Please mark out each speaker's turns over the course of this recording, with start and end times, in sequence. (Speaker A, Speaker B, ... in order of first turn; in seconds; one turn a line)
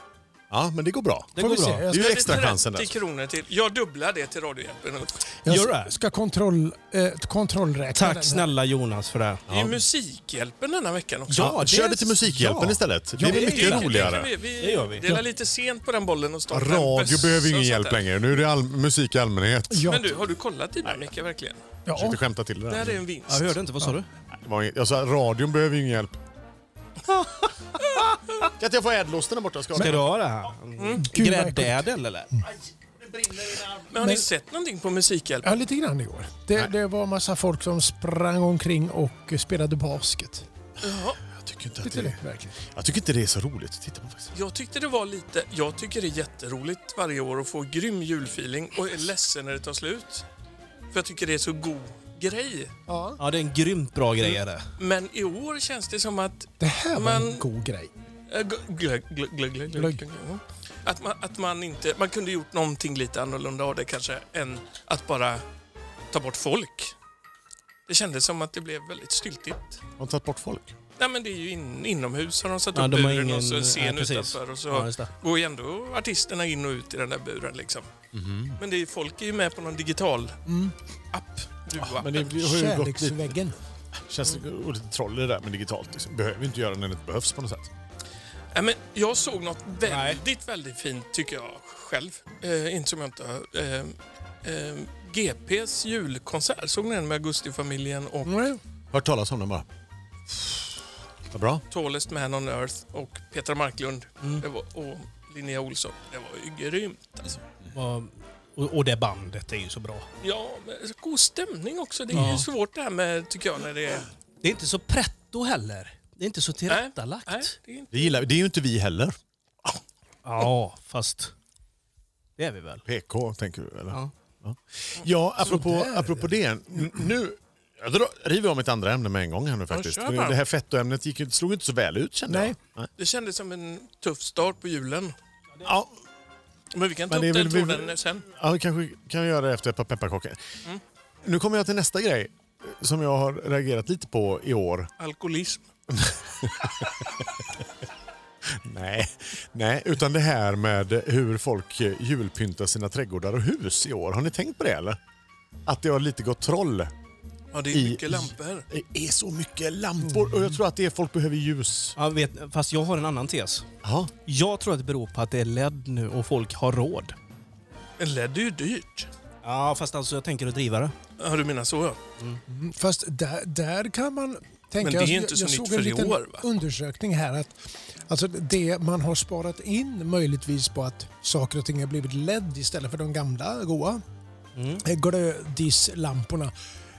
Speaker A: 0.5-1.4
Speaker B: 1.3-1.8
Speaker C: 1.4-2.2
Speaker A: 1.9-3.0
Speaker D: 1.9-5.3
Speaker C: 5.4-8.5
Speaker B: 5.5-5.9
Speaker B: 7.9-9.4
Speaker A: 9.5-9.8
Speaker D: 9.5-11.5
Speaker B: 11.3-15.1
Speaker A: 11.3-14.3
Speaker C: 13.2-13.8
Speaker D: 13.4-18.1
Speaker A: 16.5-20.0
Speaker C: 19.7-20.0
Speaker D: 19.8-21.6
Speaker C: 21.9-22.2
Speaker A: 21.9-23.0
Speaker D: 22.7-23.6
Speaker B: 23.3-24.1
Speaker A: 24.3-26.2
Speaker A: 28.6-30.1
Speaker B: 29.8-32.3
Speaker D: 30.8-31.0
Speaker C: 31.0-32.5
Speaker A: 33.0-33.9
Speaker D: 33.9-35.6
Speaker C: 35.4-40.5
Speaker D: 40.8-41.2
Speaker A: 41.3-44.3
Speaker C: 41.8-42.5
Speaker D: 44.3-50.2
Speaker D: 50.9-52.7
Speaker C: 52.9-53.2
Speaker B: 53.2-54.6
Speaker D: 54.3-57.4
Speaker C: 56.6-57.9
Speaker D: 58.3-65.4
Speaker C: 59.7-60.0
Speaker D: 66.1-66.9
Speaker D: 67.9-69.8
Speaker A: 70.0-70.7
Speaker D: 71.0-77.9
Speaker B: 72.7-75.1
Speaker A: 78.1-78.6
Speaker D: 78.6-80.4
Speaker C: 80.5-80.7
Speaker D: 81.1-82.3
Speaker A: 81.8-83.4
Speaker C: 82.3-83.6
Speaker A: 83.9-87.7
Speaker D: 88.5-98.3
Speaker B: 89.8-90.2
Speaker C: 98.2-98.6
Speaker A: 98.9-99.7
Speaker A: 100.3-100.6
Speaker A: 101.3-101.6
Speaker D: 101.7-107.4
Speaker B: 107.7-110.1
Speaker D: 110.2-114.1
Speaker B: 112.1-112.4
Speaker B: 114.4-117.5
Speaker D: 116.7-118.2
Speaker A: 117.9-119.2
Speaker B: 120.2-121.3
Speaker B: 122.4-122.8
Speaker A: 122.8-132.9
Speaker C: 125.4-126.2
Speaker D: 129.7-130.4
Speaker C: 132.3-132.5
Speaker D: 133.0-135.1
Speaker A: 135.6-135.9
Speaker D: 136.7-138.2
Speaker A: 137.1-140.4
Speaker A: 141.2-144.9
Speaker D: 145.0-145.7
Speaker A: 145.9-147.6
Speaker A: 148.5-155.0
Speaker A: 155.7-156.9
Speaker D: 157.5-158.6
Speaker A: 157.7-161.9
Speaker B: 161.9-163.7
Speaker A: 163.8-164.1
Speaker B: 164.2-167.1
Speaker D: 168.0-169.1
Speaker B: 169.4-170.9
Speaker D: 171.2-172.0
Speaker C: 172.5-177.6
Speaker D: 174.8-176.4
Speaker C: 178.1-184.0
Speaker B: 184.6-184.8
Speaker C: 184.8-186.5